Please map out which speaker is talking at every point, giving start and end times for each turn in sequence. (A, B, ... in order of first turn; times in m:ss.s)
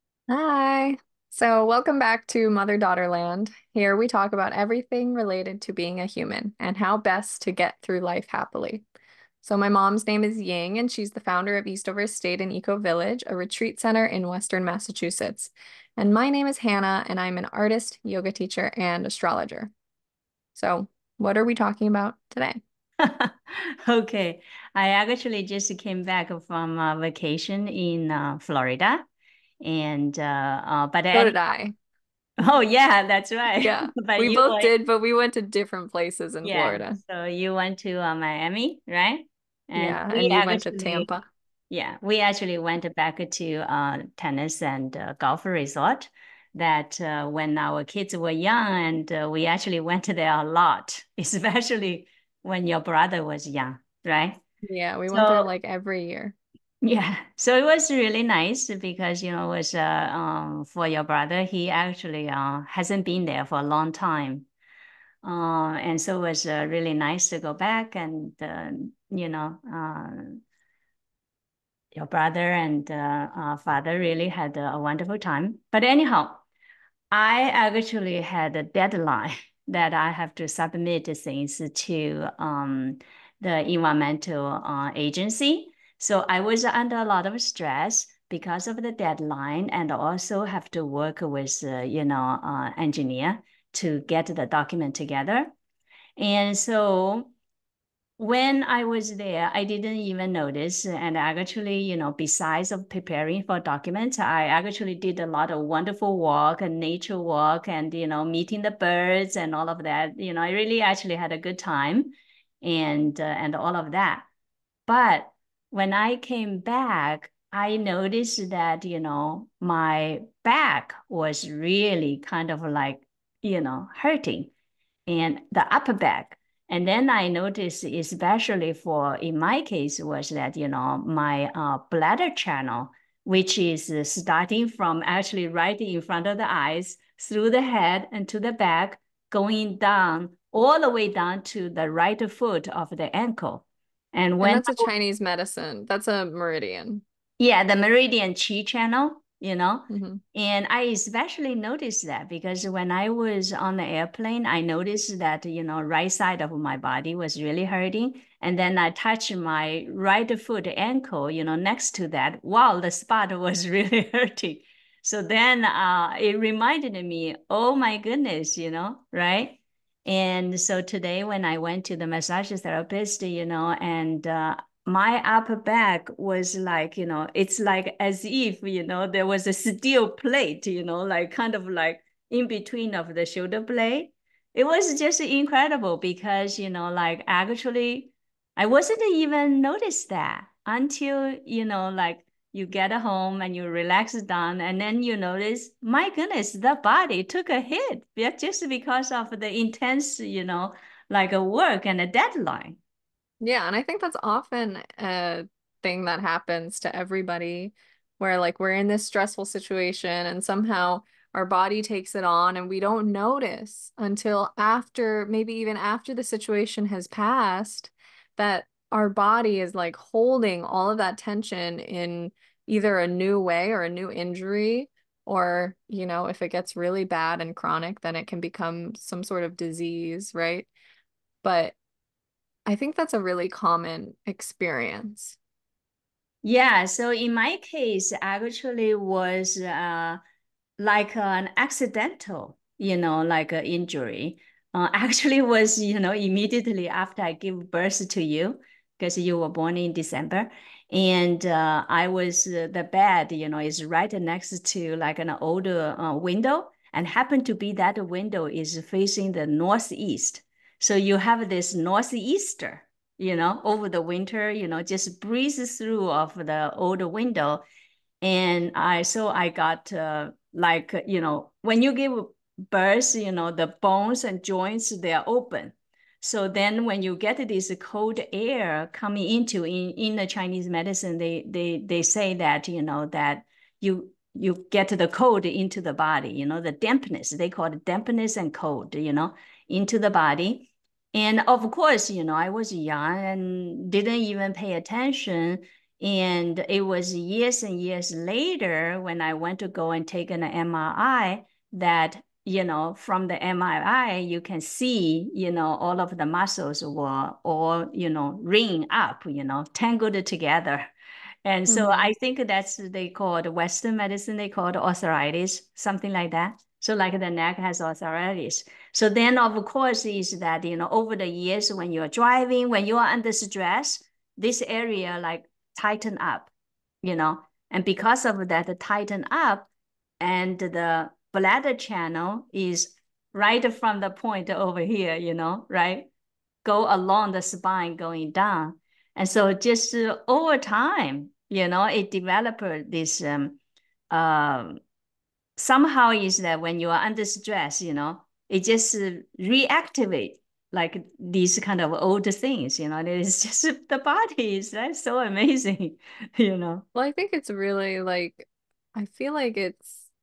0:00.3-0:08.8 A
0:09.4-0:19.7 A
0:20.6-0:22.6 A
0:23.0-0:29.0 B
0:29.6-0:31.4 B
0:31.1-0:31.7 A
0:32.4-0:34.7 B
0:33.6-0:37.0 A
0:36.4-0:41.1 B
0:39.8-0:41.2 A
0:41.7-0:54.4 B
0:54.6-0:56.4 A
0:55.1-0:55.5 B
0:56.8-1:04.5 B
1:05.2-1:10.4 B
1:11.9-1:16.4 B
1:17.1-1:35.5 B
1:36.2-1:37.3 B
1:38.2-1:54.3 B
1:54.9-2:04.5 B
2:05.1-2:24.9 B
2:24.4-2:27.0 A
2:27.4-3:22.8 B
2:29.9-2:30.2 A
3:23.4-3:50.7 A
3:51.4-3:51.8 A
3:52.7-3:55.4 A
3:56.4-4:00.2 B
4:00.8-4:27.6 B
4:28.2-5:10.9 B
5:11.5-5:26.5 B
5:11.7-5:12.1 A
5:27.0-5:29.7 B
5:30.2-5:36.1 B
5:36.6-5:43.6 B
5:44.1-5:44.8 B
5:45.6-5:56.8 B
5:57.0-6:00.0 A